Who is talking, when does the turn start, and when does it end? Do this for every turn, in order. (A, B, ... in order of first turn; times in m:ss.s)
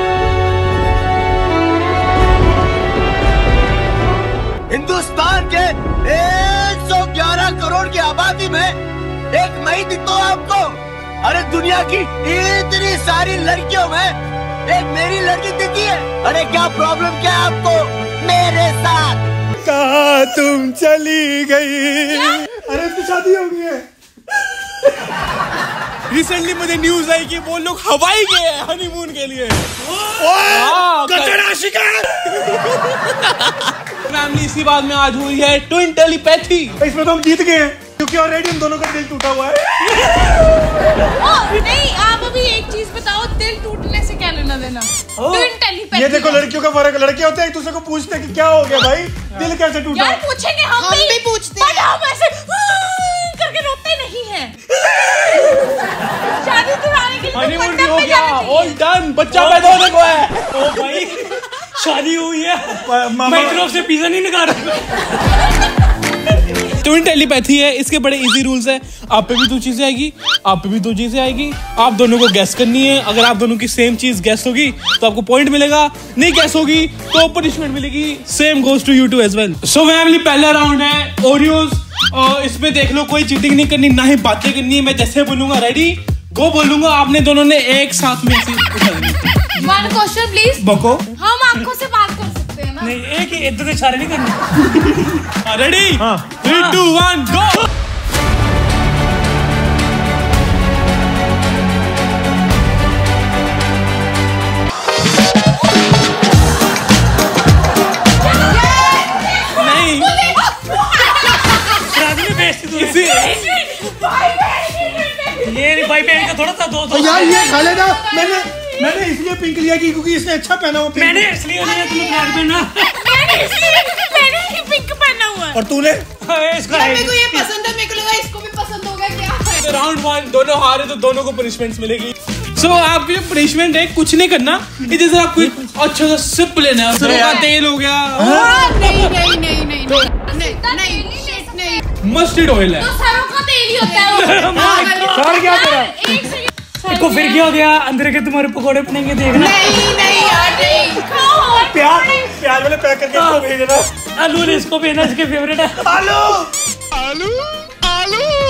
0:04.7-0:08.8 A
0:09.3-0:14.2 A
0:14.7-0:19.2 A
0:19.6-0:23.8 B
0:26.1-0:29.7 C
0:30.0-0:32.6 B
0:30.4-0:31.4 C
0:32.8-0:36.8 C
0:36.8-0:40.0 B
0:41.1-0:46.5 D
0:45.2-0:50.2 B
0:49.9-0:55.6 D
0:50.8-0:51.9 E
0:56.4-0:58.8 D
0:57.3-1:00.5 C
0:59.3-1:00.0 F
1:00.5-1:05.1 F
1:02.7-1:03.6 B
1:06.7-1:29.3 C
1:29.6-1:30.6 D
1:29.6-1:29.8 B
1:30.6-1:31.0 B
1:31.2-1:33.0 D
1:32.8-1:34.4 F
1:35.4-1:37.7 C
1:36.0-1:36.4 B
1:36.4-1:36.8 F
1:48.3-1:51.7 D
1:49.5-1:50.2 C
1:51.8-1:53.4 F
1:52.7-1:53.4 C
1:53.0-1:56.3 D
1:55.4-1:57.4 F
1:56.9-2:01.3 B
1:56.9-1:59.0 D
2:00.9-2:03.1 F
2:01.8-2:02.4 E
2:01.8-2:02.3 D
2:02.9-2:05.6 D
2:05.5-2:06.0 B
2:06.2-2:07.5 F
2:06.7-2:09.6 E
2:09.5-2:18.4 C
2:16.9-2:17.5 B
2:17.1-2:17.5 D
2:18.1-2:18.6 B
2:18.2-2:19.1 D
2:18.2-2:21.8 E
2:20.2-2:21.8 D
2:22.0-2:22.9 C
2:22.8-2:27.5 D
2:23.9-2:25.2 F
2:24.5-2:25.4 E
2:25.1-2:26.1 B
2:26.8-2:29.7 F
2:29.3-2:31.0 E
2:29.9-2:32.3 D
2:31.6-2:33.9 B
2:33.1-2:33.4 F
2:34.0-2:36.0 F
2:35.8-2:36.5 B